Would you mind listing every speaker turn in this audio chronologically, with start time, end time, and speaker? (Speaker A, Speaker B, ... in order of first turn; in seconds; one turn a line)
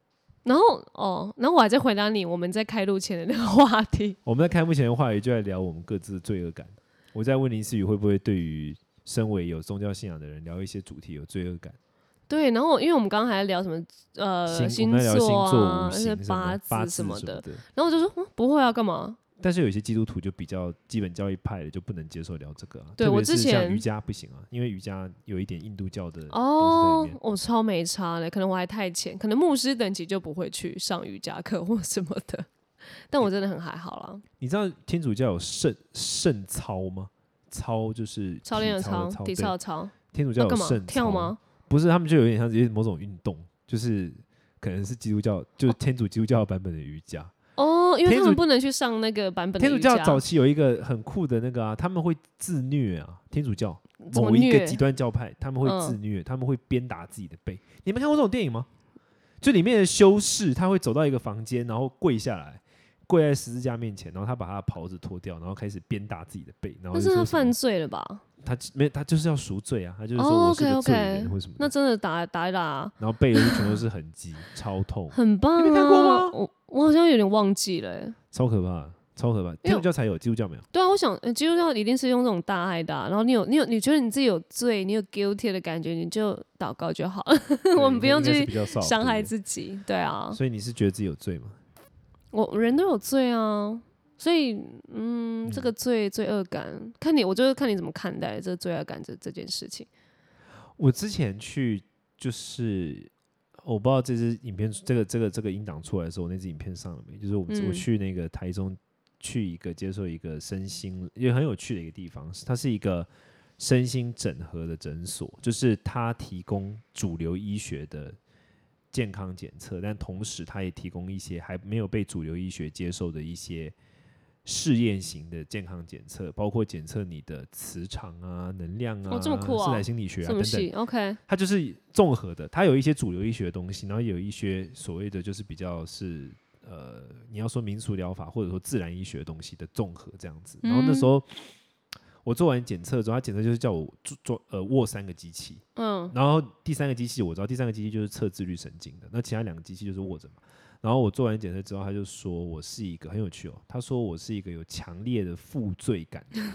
Speaker A: 0.4-4.2
Speaker B: 4.2-11.8
Speaker A: 12.3-19.2
Speaker B: 14.5-17.6
Speaker B: 19.4-27.2
Speaker A: 23.0-23.8
Speaker A: 26.3-32.5
Speaker A: 33.1-34.2
Speaker B: 34.4-39.5
Speaker A: 38.4-41.4
Speaker B: 40.1-47.3
Speaker A: 47.6-50.2
Speaker B: 48.0-48.4
Speaker B: 49.6-58.7
Speaker A: 54.0-54.8
Speaker A: 55.6-56.0
Speaker B: 59.4-67.5
Speaker A: 66.9-68.2
Speaker B: 68.4-71.7
Speaker A: 70.2-73.8
Speaker B: 73.0-76.3
Speaker A: 75.1-78.2
Speaker B: 78.3-80.6
Speaker A: 80.7-90.4
Speaker B: 87.7-89.3
Speaker B: 90.3-91.6
Speaker A: 92.3-99.9
Speaker B: 100.8-103.1
Speaker B: 103.6-118.2
Speaker A: 107.5-107.8
Speaker B: 118.9-123.7
Speaker B: 124.4-130.7
Speaker A: 129.1-131.2
Speaker B: 131.3-141.5
Speaker A: 140.6-141.1
Speaker B: 142.2-156.4
Speaker A: 145.8-146.1